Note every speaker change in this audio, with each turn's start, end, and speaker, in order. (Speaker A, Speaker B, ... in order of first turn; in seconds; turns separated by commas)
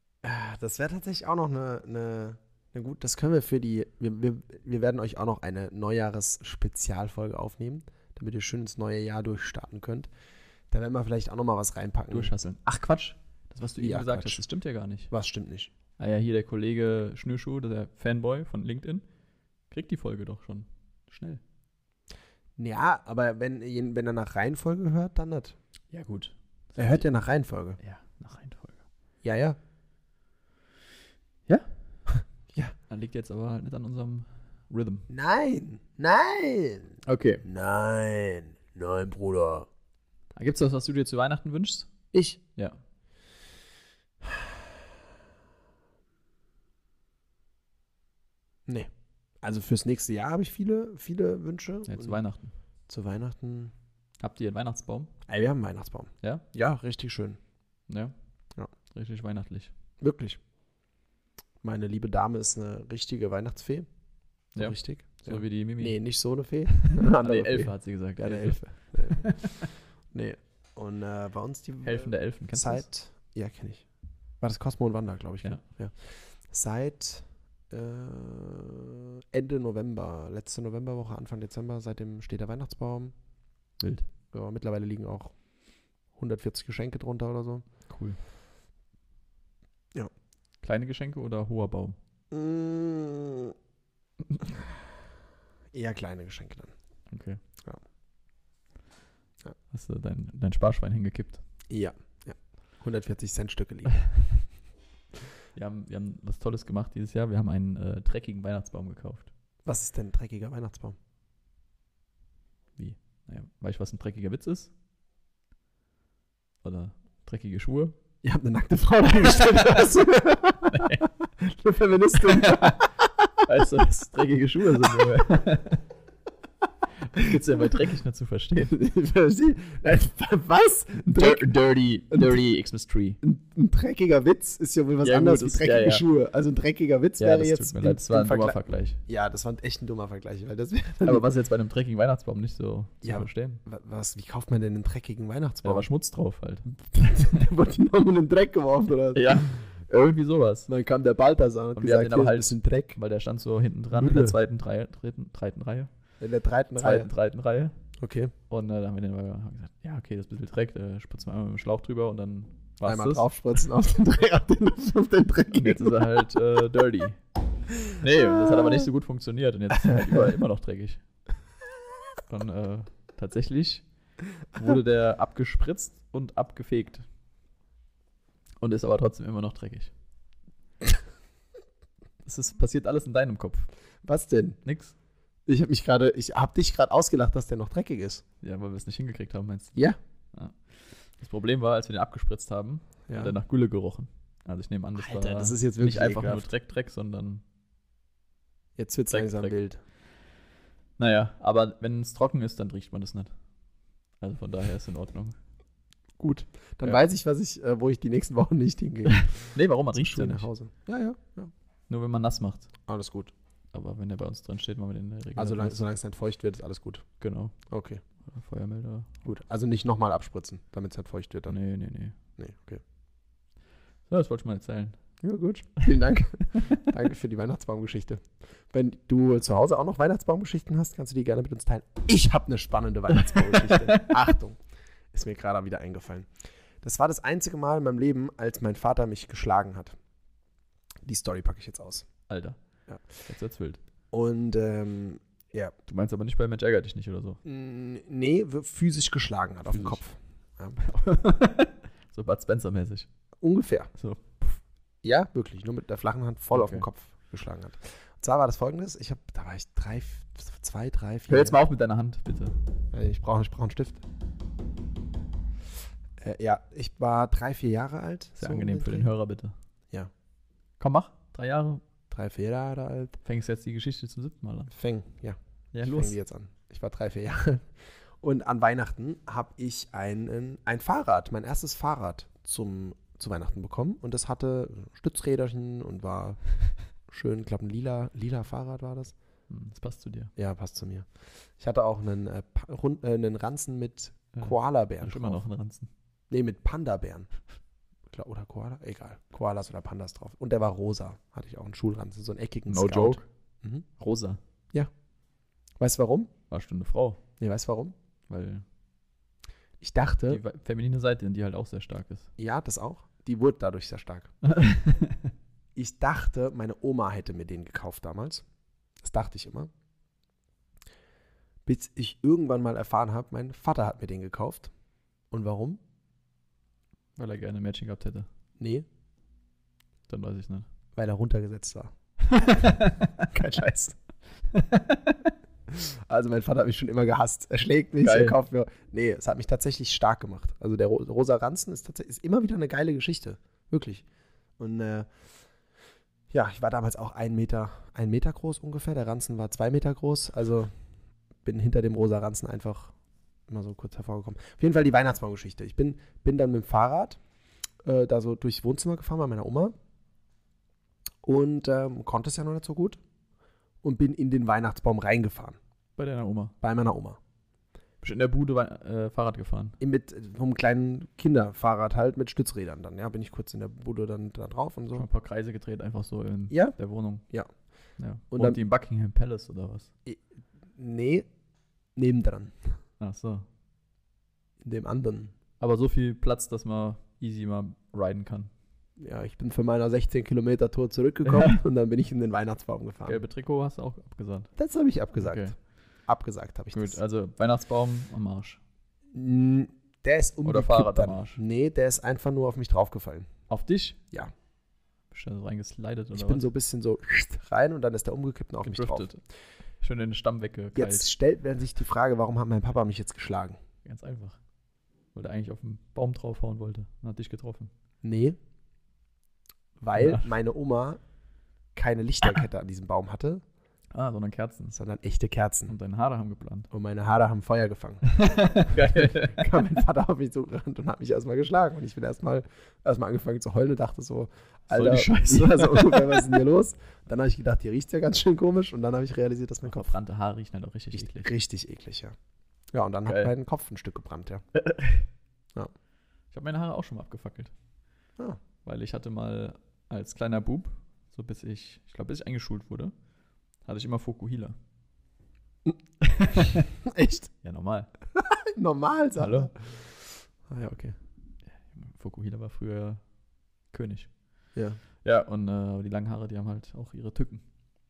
Speaker A: 0.2-10.1, Speaker A: 10.7-12.4, Speaker B: 12.1-15.1, Speaker A: 13.8-14.5, Speaker A: 15.1-15.7, Speaker B: 16.0-19.1, Speaker B: 19.7-21.4, Speaker A: 22.6-25.6, Speaker B: 25.9-27.1, Speaker A: 26.8-27.8, Speaker B: 27.8-28.8, Speaker A: 29.2-29.6, Speaker B: 32.9-35.1, Speaker A: 35.1-39.7, Speaker B: 37.0-37.4, Speaker B: 40.4-41.9, Speaker A: 42.1-42.4, Speaker A: 49.4-52.2, Speaker B: 51.9-52.5, Speaker A: 52.9-53.7, Speaker B: 54.2-55.1, Speaker A: 55.3-57.4, Speaker B: 57.9-58.1, Speaker B: 58.7-59.7, Speaker A: 60.0-60.4, Speaker A: 61.6-63.9, Speaker A: 64.5-73.9, Speaker B: 64.5-66.0, Speaker B: 67.0-69.6, Speaker B: 71.8-72.9, Speaker A: 74.4-83.1, Speaker A: 83.9-85.4, Speaker A: 86.1-87.6, Speaker B: 87.9-88.2, Speaker B: 90.6-92.0, Speaker A: 92.3-93.5, Speaker A: 95.7-96.7, Speaker B: 97.1-97.4, Speaker B: 99.7-101.4, Speaker A: 101.7-104.1, Speaker B: 105.5-109.3, Speaker A: 109.7-111.0, Speaker B: 112.8-114.7, Speaker B: 116.6-118.0, Speaker A: 118.2-123.0, Speaker B: 119.2-119.9, Speaker B: 120.7-121.0, Speaker B: 122.2-122.9, Speaker B: 123.4-125.8, Speaker B: 127.1-128.7, Speaker A: 128.6-131.6, Speaker B: 131.1-133.2, Speaker A: 132.1-132.4, Speaker A: 133.2-141.3, Speaker B: 135.0-136.1, Speaker B: 137.2-139.0, Speaker B: 141.0-143.6, Speaker A: 143.0-145.9, Speaker B: 145.6-146.7, Speaker A: 146.8-149.5, Speaker B: 149.1-150.7, Speaker A: 150.7-153.0, Speaker B: 151.8-155.9, Speaker A: 153.9-154.3, Speaker A: 156.2-157.1, Speaker B: 156.8-157.8, Speaker A: 158.0-158.3, Speaker B: 158.5-163.3, Speaker A: 162.8-166.0, Speaker B: 165.5-167.2, Speaker B: 168.0-171.0, Speaker B: 172.3-173.8, Speaker B: 174.6-177.1, Speaker B: 178.6-179.9, Speaker B: 182.2-183.7, Speaker A: 184.0-184.6, Speaker B: 184.6-184.9, Speaker A: 185.5-188.2, Speaker B: 188.4-189.8, Speaker B: 190.3-197.4, Speaker A: 193.1-193.3, Speaker A: 195.0-196.5, Speaker A: 198.8-199.8, Speaker B: 199.1-199.6, Speaker B: 201.0-203.3, Speaker B: 204.2-205.3, Speaker A: 206.2-211.5, Speaker B: 209.1-210.5, Speaker B: 211.9-212.7, Speaker A: 212.9-213.3, Speaker B: 213.7-215.8, Speaker A: 215.4-217.1, Speaker B: 217.2-217.6, Speaker A: 217.7-218.0, Speaker B: 218.2-219.2, Speaker A: 219.2-221.6, Speaker B: 221.5-222.2, Speaker A: 222.4-222.8, Speaker B: 224.1-225.0, Speaker A: 225.2-234.6, Speaker B: 233.3-234.1, Speaker A: 235.1-236.3, Speaker A: 236.8-240.0, Speaker A: 241.1-242.1, Speaker B: 242.3-242.6, Speaker B: 243.2-243.8, Speaker A: 244.1-245.7, Speaker B: 245.9-247.4, Speaker A: 247.4-251.0, Speaker B: 249.7-250.0, Speaker B: 250.8-253.1, Speaker A: 253.4-253.9, Speaker B: 253.9-254.6, Speaker A: 255.0-261.6, Speaker B: 256.5-256.9, Speaker B: 261.3-262.6, Speaker A: 262.9-264.0, Speaker A: 266.2-269.1, Speaker B: 268.4-269.5, Speaker B: 270.8-271.8, Speaker A: 272.1-273.2, Speaker B: 273.2-274.7, Speaker A: 274.7-277.7, Speaker B: 275.7-276.2, Speaker A: 278.2-286.4, Speaker A: 287.1-289.1, Speaker B: 289.5-290.3, Speaker A: 290.4-295.4, Speaker B: 294.4-295.9, Speaker A: 296.3-297.3, Speaker A: 298.1-303.9, Speaker B: 302.7-303.3, Speaker B: 304.0-304.4, Speaker A: 305.8-306.3, Speaker B: 306.5-307.2, Speaker A: 307.4-307.9, Speaker B: 308.3-308.6, Speaker A: 309.8-310.4, Speaker B: 310.3-312.3, Speaker A: 312.4-314.3, Speaker B: 314.4-315.3, Speaker A: 315.8-318.4, Speaker A: 319.0-319.7, Speaker A: 321.7-324.7, Speaker A: 325.3-325.8, Speaker B: 327.2-328.3, Speaker A: 328.6-328.9, Speaker B: 330.1-330.7, Speaker A: 331.0-331.9, Speaker B: 332.3-333.1, Speaker A: 333.2-334.0, Speaker B: 334.5-335.3, Speaker A: 335.7-344.1, Speaker B: 338.0-338.4, Speaker A: 344.6-345.1, Speaker A: 346.3-350.7, Speaker A: 351.4-352.9, Speaker A: 353.5-357.2, Speaker A: 357.8-359.8, Speaker A: 361.2-363.0, Speaker A: 363.8-365.6, Speaker B: 366.0-366.6, Speaker A: 366.6-367.2, Speaker B: 368.0-369.8, Speaker A: 369.8-375.1, Speaker B: 374.9-377.3, Speaker A: 376.5-377.5, Speaker B: 378.0-379.9, Speaker A: 378.3-378.6, Speaker A: 380.8-381.3, Speaker A: 381.9-382.6, Speaker B: 383.0-383.5, Speaker A: 384.6-385.3, Speaker B: 385.6-388.5, Speaker A: 389.0-393.2, Speaker B: 391.3-391.5, Speaker B: 393.1-394.6, Speaker A: 394.6-395.5, Speaker B: 395.1-395.6, Speaker A: 396.1-397.0, Speaker B: 396.7-398.6, Speaker A: 399.1-403.3, Speaker B: 400.4-401.4, Speaker B: 403.5-404.0, Speaker B: 405.1-406.5, Speaker A: 406.1-409.1, Speaker B: 408.6-409.2, Speaker B: 409.8-411.1, Speaker A: 410.8-413.6, Speaker B: 413.9-414.4, Speaker B: 415.1-417.7, Speaker A: 418.0-418.4, Speaker A: 419.8-421.0, Speaker B: 420.0-420.3, Speaker A: 421.8-423.4, Speaker B: 423.9-424.8, Speaker A: 424.7-425.8, Speaker B: 425.7-426.7, Speaker A: 426.7-439.9, Speaker B: 428.2-429.6, Speaker B: 434.7-436.4, Speaker B: 439.6-441.3, Speaker A: 440.9-442.1, Speaker A: 442.7-444.4, Speaker B: 443.1-443.3, Speaker B: 444.6-445.1, Speaker B: 446.3-447.5, Speaker B: 448.6-452.9, Speaker B: 453.6-454.6, Speaker B: 456.1-456.7, Speaker A: 456.9-457.3, Speaker B: 457.4-457.9, Speaker A: 458.2-459.9, Speaker B: 459.2-459.5, Speaker A: 460.5-461.0, Speaker B: 461.5-463.0, Speaker B: 463.7-464.1, Speaker A: 464.6-464.8, Speaker B: 465.0-467.4